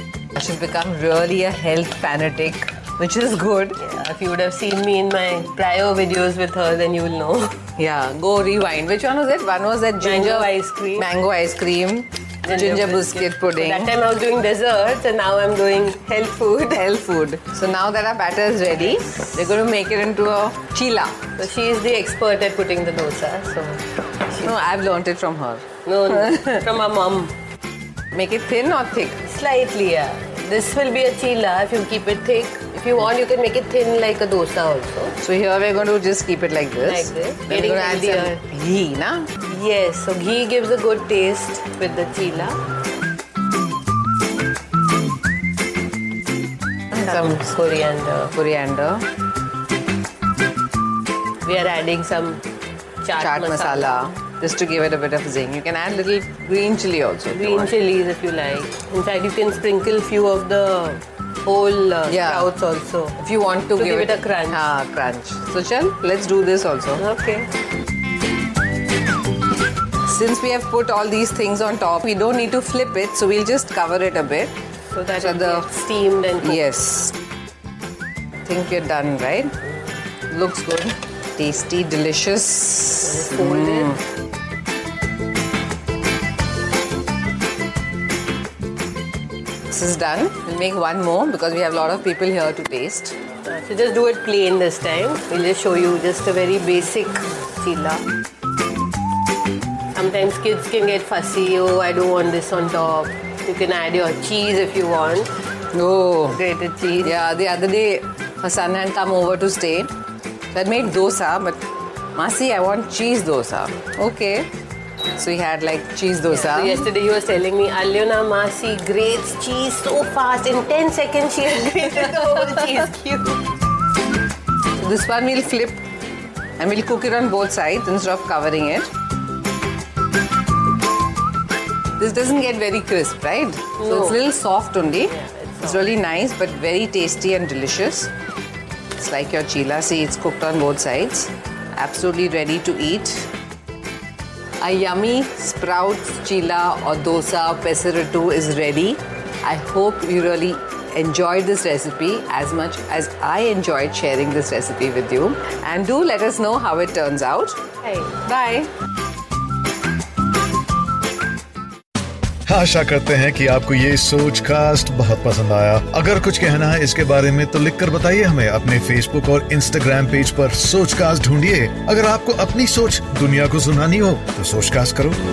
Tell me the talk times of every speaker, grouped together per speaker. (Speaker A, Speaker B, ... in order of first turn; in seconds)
Speaker A: 0.3-3.8, 7.8-13.9, 16.7-21.2, 24.4-25.7, 26.3-26.6, 28.1-29.2, 35.2-39.3, 46.9-47.4, 48.3-49.0, 53.2-57.7, 62.1-62.5, 63.2-67.0, 70.0-74.5, 75.2-75.7, 76.4-77.1, 78.5-79.5, 80.3-84.0, 89.7-93.2, 105.7-106.4, 107.0-109.9, 110.5-111.6, 112.1-114.5, 115.2-116.9, 124.8-125.8, 126.6-128.9, 132.0-138.1, 138.9-143.3, 144.6-158.7
Speaker B: 3.8-7.5, 10.0-11.1, 12.4-16.8, 21.4-23.8, 25.9-27.3, 29.2-35.1, 36.8-38.4, 39.4-42.5, 47.0-48.3, 51.4-52.4, 53.0-54.1, 57.3-63.2, 63.8-64.7, 67.0-67.5, 74.9-76.6, 83.0-84.0, 93.4-98.0, 99.9-105.3, 106.3-107.1, 116.3-123.4, 135.1-135.8
Speaker C: 162.5-175.2